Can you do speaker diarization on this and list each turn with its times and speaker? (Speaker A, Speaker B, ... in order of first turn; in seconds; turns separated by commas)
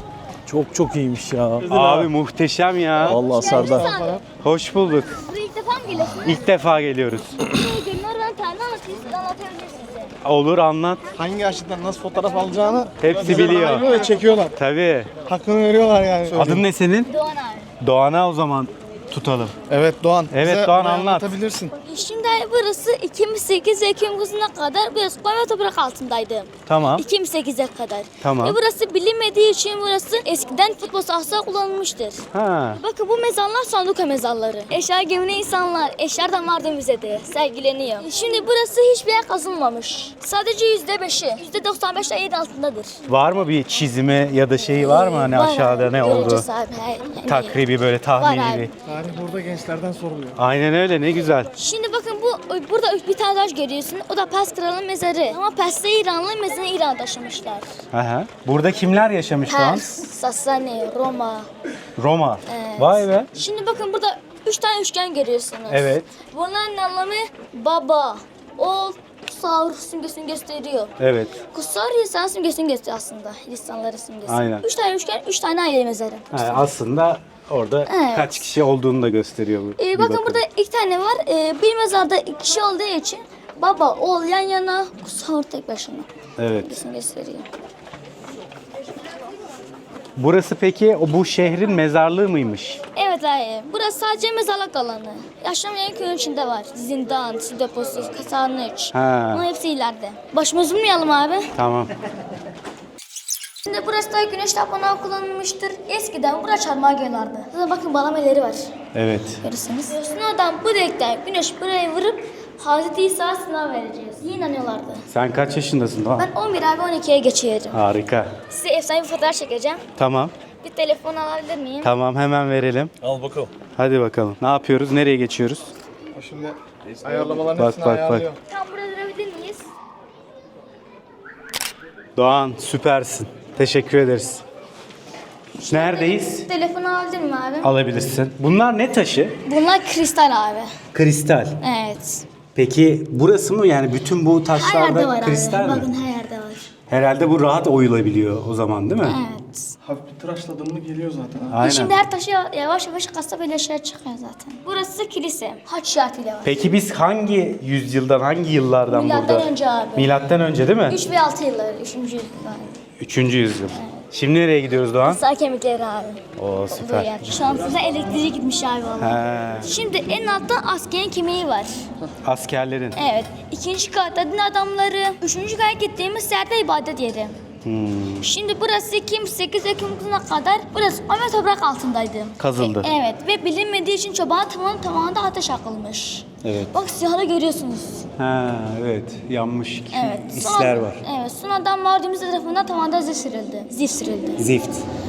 Speaker A: 0.5-2.1, Speaker B: 1.6-3.2, Speaker A: 3.0-3.9, Speaker C: 3.2-4.2, Speaker D: 3.4-4.2, Speaker B: 4.4-5.2, Speaker C: 5.1-6.4, Speaker B: 6.1-7.4, Speaker C: 7.5-10.1, Speaker B: 10.2-11.0, Speaker D: 11.2-14.5, Speaker B: 13.0-13.9, Speaker B: 14.5-15.1, Speaker D: 15.3-16.6, Speaker B: 16.3-17.1, Speaker C: 17.1-17.7, Speaker B: 17.8-19.6, Speaker D: 19.7-21.8, Speaker B: 20.3-21.3, Speaker C: 21.8-32.2, Speaker B: 26.7-27.1, Speaker B: 28.2-28.6, Speaker B: 32.3-32.8, Speaker C: 32.8-43.0, Speaker B: 43.1-46.5, Speaker C: 44.8-47.6, Speaker B: 47.3-48.7, Speaker C: 48.2-48.7, Speaker D: 48.9-50.4, Speaker B: 50.4-51.5, Speaker C: 51.5-57.7, Speaker B: 57.9-59.9, Speaker C: 59.5-61.5, Speaker B: 62.0-63.3, Speaker C: 62.5-70.9, Speaker B: 65.7-66.1, Speaker B: 71.0-71.4, Speaker C: 71.5-76.6, Speaker B: 74.3-74.7, Speaker B: 76.3-80.4, Speaker C: 77.9-78.5, Speaker C: 79.8-87.5, Speaker B: 86.4-86.8, Speaker B: 90.2-92.8, Speaker C: 92.9-101.5, Speaker B: 98.9-99.4, Speaker B: 101.6-101.9, Speaker C: 103.7-108.7, Speaker B: 108.9-109.4, Speaker C: 109.4-115.1, Speaker B: 115.1-116.3, Speaker C: 116.2-117.8, Speaker B: 117.7-118.3, Speaker C: 118.5-119.8, Speaker B: 120.0-120.3, Speaker C: 120.6-121.9, Speaker B: 121.8-122.9, Speaker A: 123.0-123.5, Speaker B: 123.8-125.7, Speaker D: 126.2-128.4, Speaker A: 127.1-127.3, Speaker B: 127.6-128.3, Speaker C: 128.5-129.7, Speaker B: 132.2-134.4, Speaker C: 135.6-137.7, Speaker B: 135.7-136.5, Speaker B: 137.6-139.4, Speaker C: 139.5-140.7, Speaker B: 140.9-141.6, Speaker C: 141.6-142.2, Speaker B: 142.6-145.9, Speaker C: 144.6-146.7, Speaker B: 146.9-149.2, Speaker C: 149.0-149.8, Speaker D: 149.8-151.6, Speaker B: 151.5-151.9, Speaker C: 151.6-156.6, Speaker B: 156.4-161.0, Speaker C: 158.9-160.1, Speaker C: 160.9-162.8, Speaker B: 163.0-165.2, Speaker C: 165.0-171.8, Speaker B: 166.4-167.3, Speaker B: 169.0-169.7, Speaker B: 172.2-173.0, Speaker C: 173.0-177.4, Speaker B: 177.7-178.3, Speaker C: 178.2-188.1, Speaker B: 182.4-182.9, Speaker B: 186.4-186.7, Speaker B: 188.2-191.0, Speaker C: 189.9-194.5, Speaker B: 194.4-194.8